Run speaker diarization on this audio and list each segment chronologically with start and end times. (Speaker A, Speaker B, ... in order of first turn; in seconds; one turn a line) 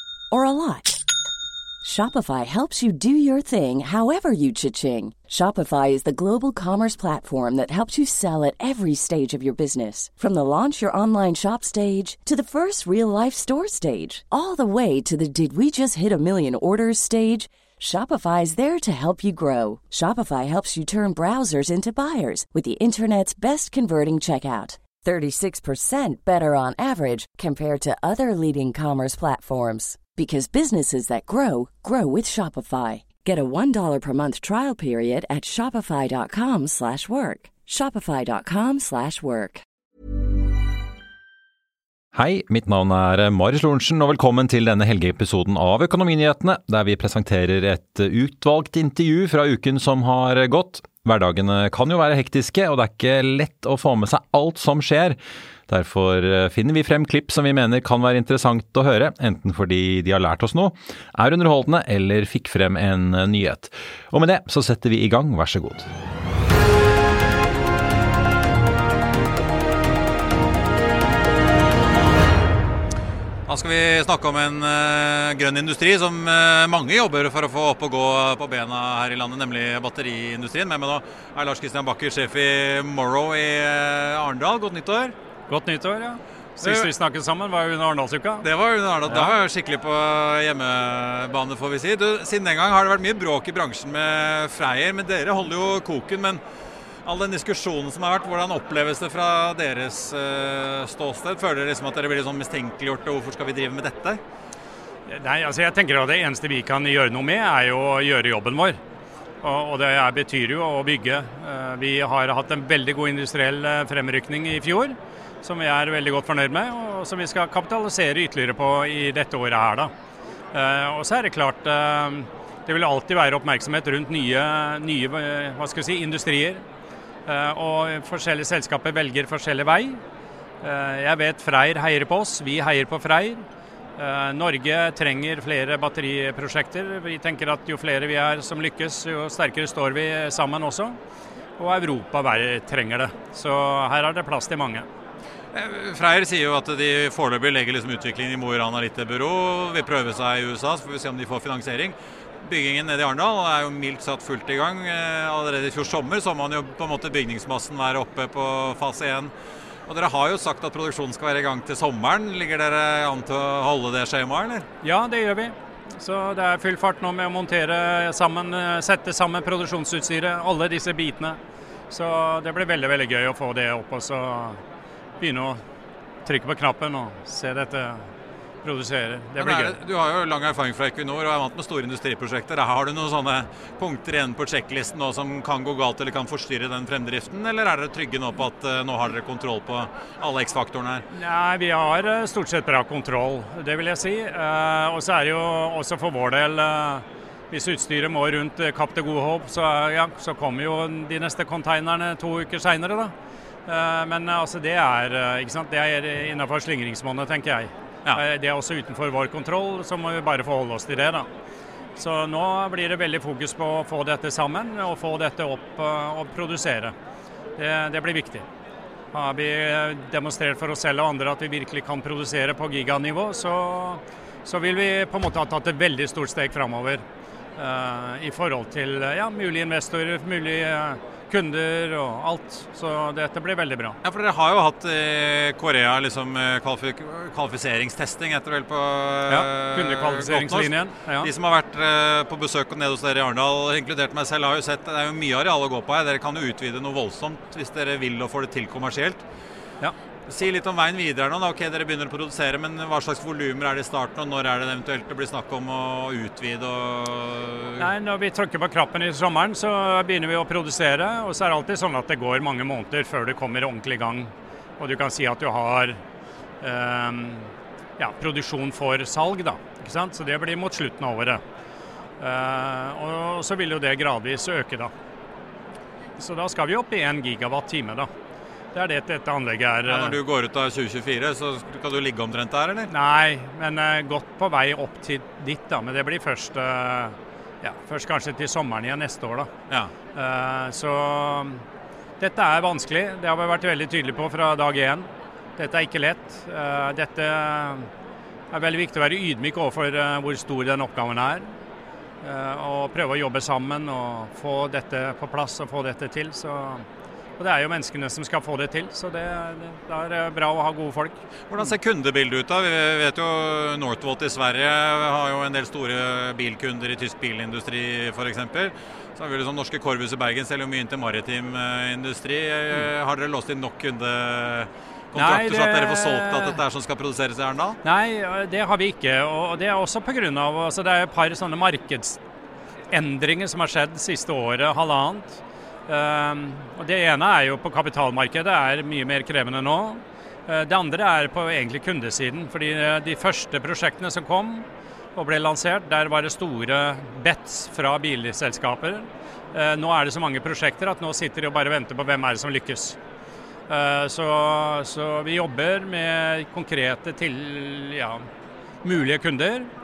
Speaker A: 0.3-1.0
Speaker A: 1.8-39.6
Speaker B: 42.1-65.9
Speaker C: 73.5-85.2
Speaker D: 85.5-88.5
Speaker C: 86.6-86.9
Speaker C: 88.4-96.4
Speaker D: 89.1-89.3
Speaker C: 97.0-104.2
Speaker D: 105.1-108.8
Speaker D: 109.4-119.9
Speaker D: 120.5-126.6
Speaker D: 127.3-130.0
Speaker D: 130.6-133.4
Speaker D: 134.0-141.0
Speaker D: 141.6-144.9
Speaker C: 145.5-159.3
Speaker C: 159.9-164.7
Speaker D: 164.8-171.4
Speaker D: 171.9-174.6
Speaker D: 175.2-175.6
Speaker D: 176.2-178.0
Speaker D: 178.6-179.8
Speaker C: 179.4-191.1
Speaker D: 191.1-203.1
Speaker D: 203.7-211.3
Speaker D: 212.0-216.9
Speaker D: 217.6-218.4
Speaker D: 219.1-227.0
Speaker D: 227.6-234.0
Speaker C: 234.0-249.2
Speaker D: 239.3-241.3
Speaker C: 250.3-257.9
Speaker D: 257.8-266.0
Speaker D: 266.6-271.4
Speaker D: 272.2-274.9
Speaker D: 276.2-278.1
Speaker D: 278.7-280.2
Speaker C: 279.9-282.9
Speaker D: 282.9-289.5
Speaker D: 290.1-291.6
Speaker D: 292.2-297.9
Speaker D: 298.5-301.5
Speaker D: 302.2-306.9
Speaker D: 307.4-311.7
Speaker C: 311.5-327.8
Speaker D: 325.1-326.6
Speaker D: 327.8-332.2
Speaker D: 332.9-353.0
Speaker D: 353.7-358.2
Speaker D: 358.8-359.7